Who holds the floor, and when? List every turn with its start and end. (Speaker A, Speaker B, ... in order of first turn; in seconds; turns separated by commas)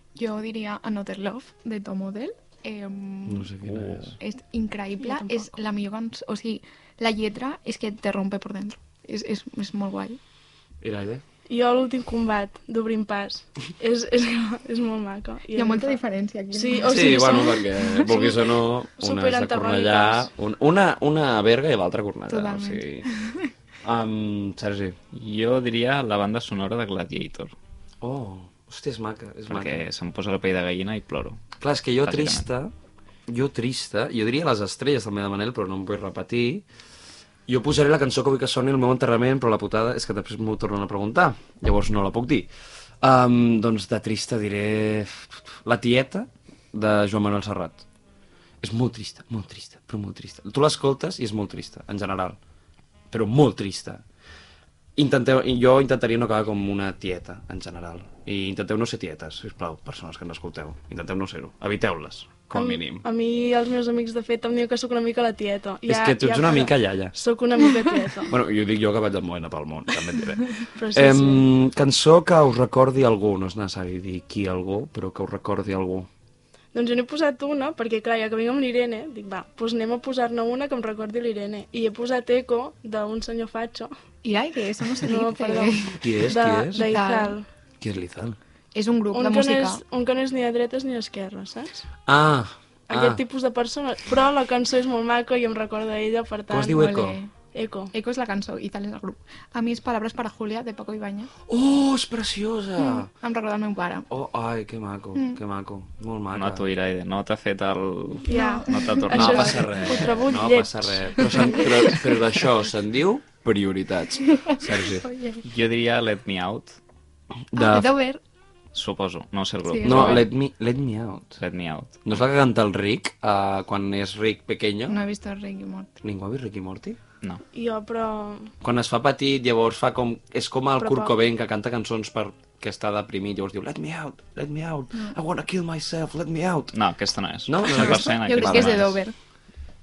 Speaker A: 0.1-10.2, Speaker B: 3.3-4.2, Speaker C: 5.0-5.5, Speaker B: 10.8-11.2, Speaker C: 11.5-16.0, Speaker A: 15.5-18.3, Speaker C: 16.5-18.3, Speaker B: 16.8-23.1, Speaker C: 18.9-20.3, Speaker A: 22.3-23.5, Speaker B: 23.8-25.0, Speaker D: 25.1-27.5, Speaker B: 28.0-29.8, Speaker D: 29.5-31.4, Speaker B: 31.6-32.7, Speaker D: 32.0-32.5, Speaker B: 33.3-36.6, Speaker B: 37.5-42.5, Speaker B: 43.0-47.8, Speaker B: 48.6-52.4, Speaker B: 53.1-54.0, Speaker B: 55.0-63.0, Speaker C: 62.5-68.3, Speaker B: 65.8-67.1, Speaker B: 68.3-76.1, Speaker C: 70.7-71.5, Speaker C: 76.7-83.9, Speaker A: 84.2-87.4, Speaker C: 85.0-87.5, Speaker B: 85.9-86.9, Speaker B: 87.8-88.4, Speaker A: 88.7-89.8, Speaker C: 89.1-91.8, Speaker B: 92.0-93.2, Speaker C: 92.9-96.9, Speaker B: 96.5-97.2, Speaker A: 96.8-97.3, Speaker C: 97.5-97.9, Speaker A: 97.9-101.3, Speaker B: 101.5-103.1, Speaker A: 102.8-104.1, Speaker B: 104.1-106.7, Speaker D: 106.3-109.7, Speaker C: 108.2-112.0, Speaker A: 108.3-109.5, Speaker B: 109.1-115.0, Speaker A: 111.4-111.9, Speaker A: 115.0-115.4, Speaker D: 115.4-116.7, Speaker B: 117.5-117.9, Speaker A: 117.5-118.2, Speaker D: 118.7-120.3, Speaker A: 119.7-120.2, Speaker B: 119.8-121.4, Speaker D: 121.4-122.2, Speaker B: 122.0-125.0, Speaker A: 124.9-126.0, Speaker B: 126.0-127.0, Speaker C: 127.5-128.5, Speaker B: 128.6-136.7, Speaker C: 130.8-131.2, Speaker D: 136.7-139.0, Speaker B: 137.5-138.9, Speaker A: 137.7-139.1